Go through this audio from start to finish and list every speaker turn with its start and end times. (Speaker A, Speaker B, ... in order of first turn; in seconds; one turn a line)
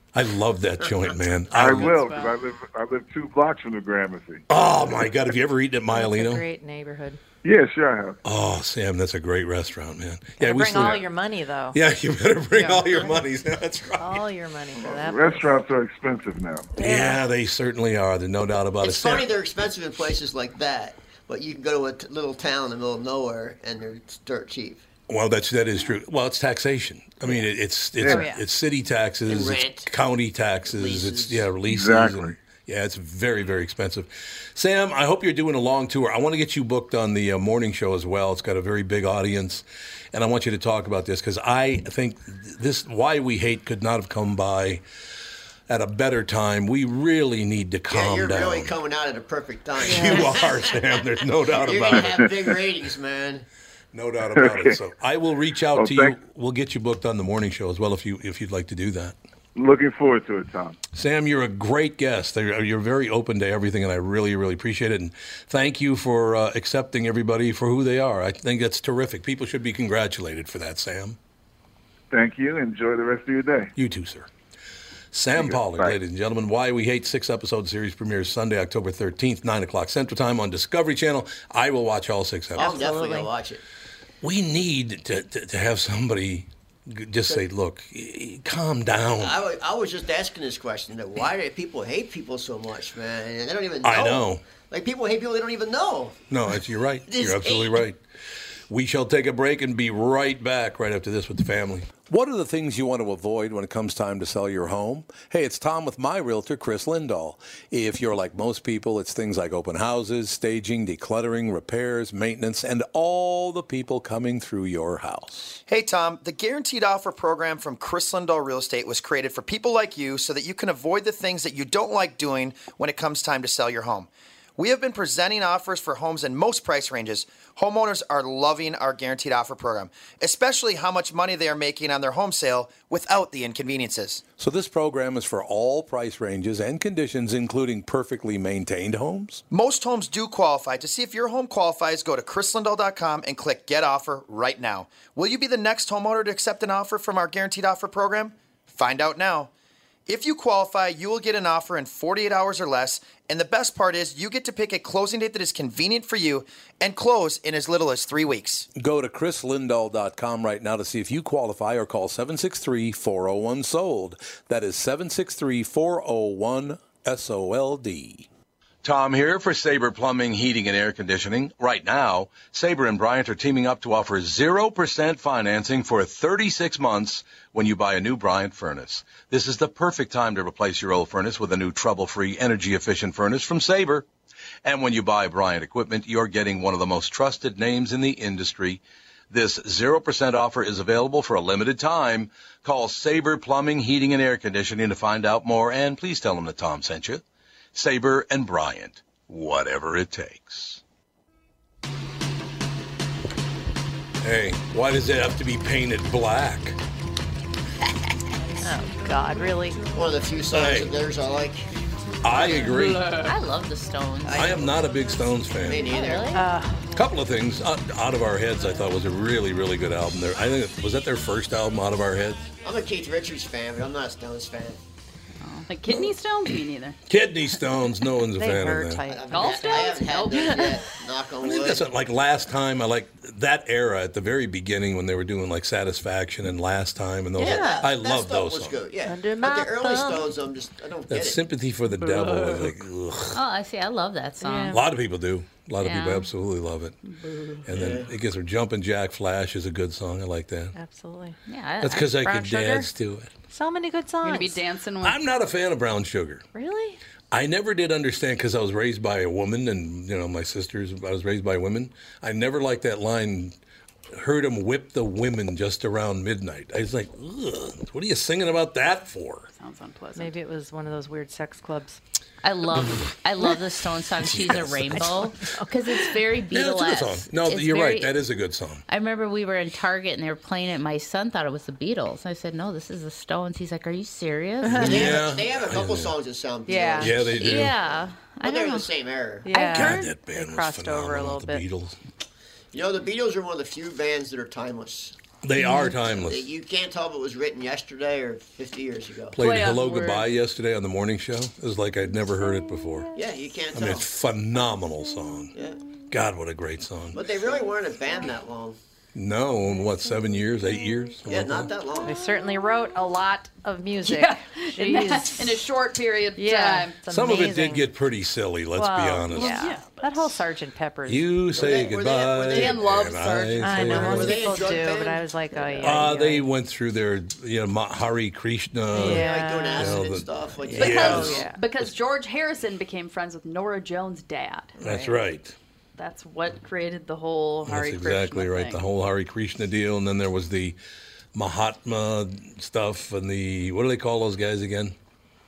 Speaker A: 0.1-1.9
Speaker B: 1.5-4.5
Speaker C: 1.7-2.3
Speaker A: 4.5-6.4
Speaker D: 5.9-7.2
Speaker B: 7.4-8.2
Speaker A: 8.2-11.1
Speaker D: 10.4-11.8
Speaker A: 11.7-14.2
Speaker D: 12.5-13.2
Speaker D: 14.0-15.5
Speaker B: 14.8-16.8
Speaker D: 16.8-17.2
Speaker A: 16.8-19.3
Speaker E: 18.8-24.8
Speaker A: 25.1-44.8
Speaker B: 28.0-28.3
Speaker D: 28.1-28.4
Speaker E: 29.3-29.9
Speaker E: 30.7-31.5
Speaker B: 31.6-32.4
Speaker A: 45.7-48.7
Speaker E: 47.9-53.5
Speaker A: 49.8-52.3
Speaker D: 49.9-50.2
Speaker B: 51.9-52.3
Speaker A: 53.9-59.2
Speaker B: 54.3-54.8
Speaker B: 55.7-56.2
Speaker B: 59.5-60.8
Speaker A: 61.0-71.2
Speaker B: 72.1-73.7
Speaker A: 73.8-74.3
Speaker A: 75.1-82.8
Speaker B: 75.3-76.0
Speaker E: 82.6-83.6
Speaker D: 82.6-83.3
Speaker A: 84.2-89.4
Speaker E: 89.2-96.2
Speaker A: 93.8-94.4
Speaker A: 96.3-98.0
Speaker E: 97.1-97.8
Speaker A: 98.7-115.6
Speaker F: 115.7-134.2
Speaker A: 134.4-139.4
Speaker F: 139.5-149.5
Speaker F: 150.1-158.7
Speaker A: 158.8-168.3
Speaker A: 168.8-184.1
Speaker A: 184.6-197.2
Speaker A: 197.7-200.8
Speaker A: 204.2-206.8
Speaker D: 208.6-209.8
Speaker E: 209.9-211.7
Speaker A: 210.5-210.9
Speaker A: 212.2-213.2
Speaker G: 212.5-214.6
Speaker E: 214.3-214.8
Speaker A: 214.3-215.9
Speaker E: 215.6-216.3
Speaker G: 215.8-216.4
Speaker D: 216.3-216.9
Speaker A: 216.9-222.5
Speaker E: 222.6-224.8
Speaker C: 225.7-227.0
Speaker A: 227.1-229.0
Speaker D: 228.4-230.7
Speaker E: 229.1-231.9
Speaker C: 229.3-230.8
Speaker A: 231.4-238.8
Speaker D: 237.4-237.8
Speaker E: 237.4-241.4
Speaker D: 239.1-240.3
Speaker A: 241.1-243.4
Speaker C: 242.0-242.7
Speaker G: 243.3-244.8
Speaker D: 244.4-244.8
Speaker A: 244.7-247.0
Speaker G: 245.8-246.3
Speaker C: 247.1-247.6
Speaker A: 247.7-250.7
Speaker E: 247.7-248.1
Speaker D: 250.8-251.4
Speaker G: 251.5-252.2
Speaker A: 251.8-253.3
Speaker D: 252.2-252.9
Speaker D: 253.5-254.6
Speaker C: 254.2-255.2
Speaker A: 255.0-256.4
Speaker D: 256.5-257.0
Speaker A: 257.3-263.6
Speaker A: 264.1-269.5
Speaker C: 269.6-270.4
Speaker D: 270.2-272.0
Speaker G: 272.4-278.2
Speaker A: 274.2-275.3
Speaker D: 275.0-275.7
Speaker A: 276.5-278.8
Speaker G: 278.9-285.0
Speaker D: 284.6-285.0
Speaker E: 284.7-290.0
Speaker A: 284.7-286.1
Speaker D: 286.7-287.1
Speaker A: 287.0-287.8
Speaker G: 287.4-288.9
Speaker D: 289.5-291.6
Speaker A: 289.5-292.0
Speaker E: 292.7-295.2
Speaker A: 295.4-296.5
Speaker E: 296.1-299.4
Speaker A: 299.3-303.1
Speaker C: 299.4-300.3
Speaker E: 303.1-304.1
Speaker A: 303.7-305.6
Speaker E: 305.5-305.8
Speaker A: 306.1-307.2
Speaker E: 307.1-308.8
Speaker A: 309.1-311.7
Speaker E: 311.3-312.2
Speaker D: 312.0-315.6
Speaker C: 314.1-316.9
Speaker D: 316.4-317.9
Speaker A: 317.1-319.7
Speaker D: 318.8-321.3
Speaker C: 319.3-320.4
Speaker A: 321.1-324.4
Speaker E: 321.6-322.9
Speaker C: 322.5-324.4
Speaker D: 323.6-326.5
Speaker E: 323.9-326.1
Speaker A: 325.8-331.5
Speaker D: 328.9-330.0
Speaker E: 329.0-331.5
Speaker D: 330.7-331.6
Speaker C: 330.8-334.8
Speaker D: 334.8-335.2
Speaker A: 334.8-335.6
Speaker C: 336.0-338.8
Speaker A: 337.7-340.8
Speaker A: 341.4-345.0